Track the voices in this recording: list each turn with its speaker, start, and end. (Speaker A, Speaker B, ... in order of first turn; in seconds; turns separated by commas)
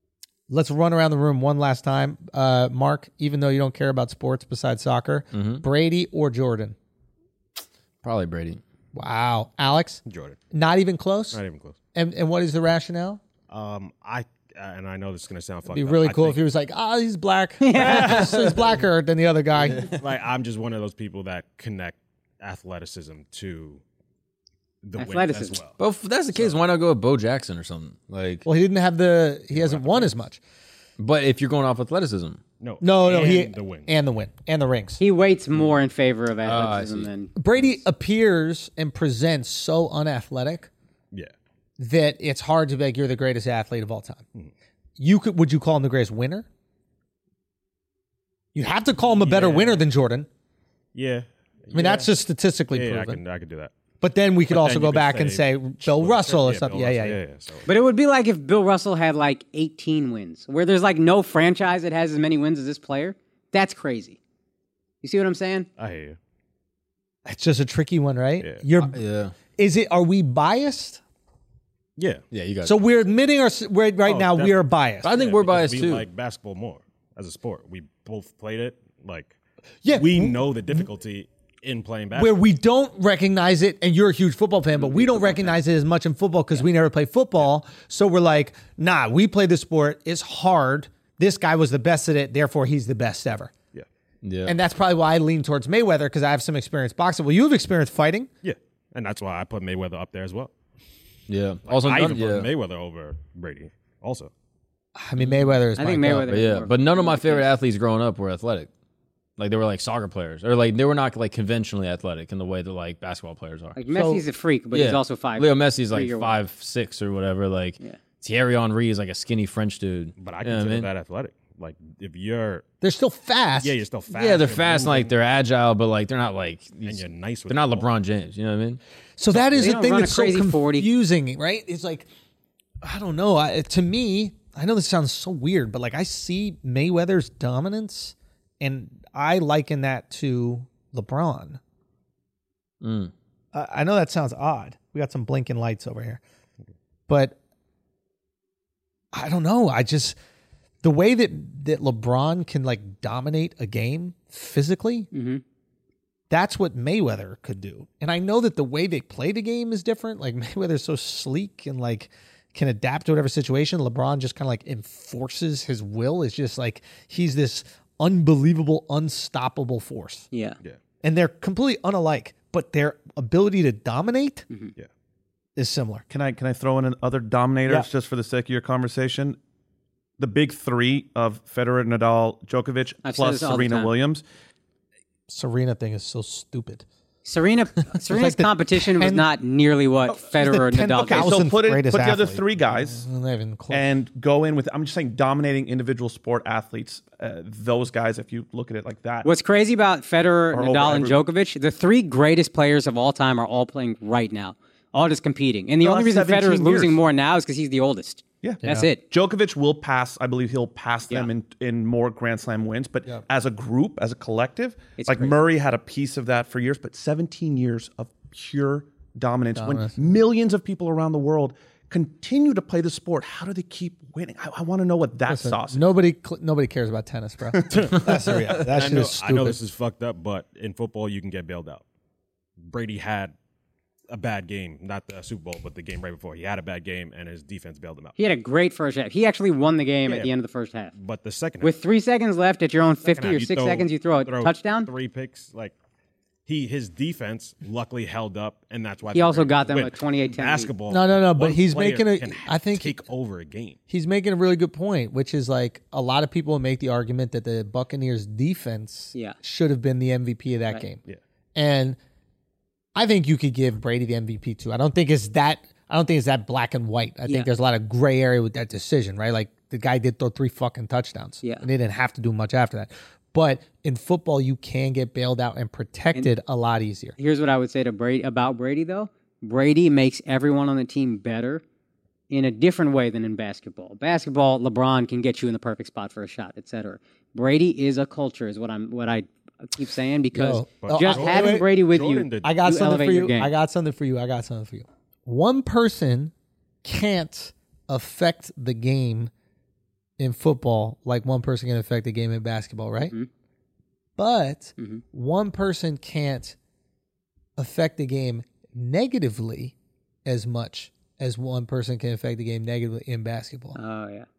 Speaker A: 0.5-6.8, Speaker B: 5.3-5.6, Speaker B: 8.0-8.6, Speaker A: 8.9-11.4, Speaker C: 10.1-10.4, Speaker C: 11.3-11.8, Speaker A: 11.9-13.2, Speaker C: 13.5-16.4, Speaker A: 15.7-19.9, Speaker D: 17.6-18.4, Speaker C: 17.8-18.3, Speaker C: 19.9-23.8, Speaker C: 24.8-25.8, Speaker D: 25.0-25.6, Speaker B: 25.8-28.4, Speaker C: 26.3-26.6, Speaker A: 28.4-30.4, Speaker C: 29.5-30.1, Speaker B: 31.0-32.4, Speaker C: 32.6-33.9, Speaker A: 32.8-35.0, Speaker D: 35.0-37.3, Speaker B: 36.4-37.1, Speaker A: 37.4-40.7, Speaker A: 41.8-44.2, Speaker A: 45.0-46.5, Speaker A: 48.5-50.3, Speaker C: 49.0-49.8, Speaker C: 50.9-52.1, Speaker A: 51.7-53.2, Speaker C: 52.7-53.7, Speaker A: 54.0-57.2, Speaker C: 54.5-57.7, Speaker D: 57.7-64.2, Speaker D: 65.0-65.7, Speaker C: 65.8-66.2, Speaker A: 67.2-69.0, Speaker C: 68.4-68.6, Speaker B: 68.8-69.3, Speaker A: 69.6-71.0, Speaker C: 72.0-72.2, Speaker B: 72.3-72.8, Speaker A: 72.6-75.1, Speaker C: 74.0-79.3, Speaker B: 75.0-76.0, Speaker A: 79.8-80.8, Speaker C: 79.9-82.4, Speaker A: 82.1-93.5, Speaker C: 84.8-85.4, Speaker B: 94.2-94.5, Speaker A: 94.5-98.3, Speaker C: 98.4-100.5, Speaker B: 101.3-102.5, Speaker C: 101.7-104.3, Speaker A: 105.0-106.3, Speaker D: 105.8-107.5, Speaker B: 106.3-108.7, Speaker B: 109.4-113.8, Speaker D: 113.8-116.3, Speaker A: 113.9-114.2, Speaker B: 114.7-120.9, Speaker C: 120.2-122.6, Speaker A: 122.8-123.8, Speaker C: 123.6-125.1, Speaker B: 124.1-128.8, Speaker C: 126.8-127.9, Speaker A: 129.2-132.1, Speaker C: 129.3-129.7, Speaker D: 129.6-130.9, Speaker A: 132.8-141.6, Speaker B: 142.8-143.1, Speaker A: 143.5-146.2, Speaker A: 147.1-147.3, Speaker A: 149.1-150.2, Speaker A: 150.8-155.1, Speaker D: 155.1-155.4, Speaker A: 156.3-170.3, Speaker D: 170.3-170.6, Speaker A: 171.0-174.4, Speaker A: 175.6-176.0, Speaker E: 176.1-179.4, Speaker E: 180.2-184.2, Speaker D: 183.0-183.9, Speaker A: 185.3-186.8, Speaker D: 187.2-191.4, Speaker A: 188.1-189.2, Speaker A: 190.2-193.9, Speaker E: 191.0-193.0, Speaker E: 193.7-199.3, Speaker D: 199.2-209.0, Speaker E: 200.5-201.2, Speaker E: 205.8-207.0, Speaker E: 208.4-225.9, Speaker A: 208.6-208.9, Speaker D: 215.0-215.4, Speaker A: 219.6-220.1, Speaker A: 225.3-229.6, Speaker E: 227.5-228.1, Speaker C: 227.7-231.8, Speaker C: 232.7-233.3, Speaker C: 234.1-238.2, Speaker D: 238.2-240.9, Speaker C: 240.1-240.3, Speaker C: 240.9-241.7, Speaker D: 241.6-244.9, Speaker C: 243.1-245.7, Speaker C: 246.4-253.8, Speaker D: 249.1-250.7, Speaker A: 250.9-253.0, Speaker A: 253.9-261.0, Speaker A: 261.5-262.0, Speaker A: 262.9-277.1, Speaker D: 277.2-281.6, Speaker D: 282.3-293.5, Speaker A: 290.3-291.7, Speaker C: 290.8-292.6, Speaker A: 292.4-296.3, Speaker A: 296.8-299.3, Speaker A: 300.2-303.1, Speaker A: 304.2-306.6, Speaker A: 307.6-309.7, Speaker A: 310.2-313.8, Speaker D: 313.8-314.3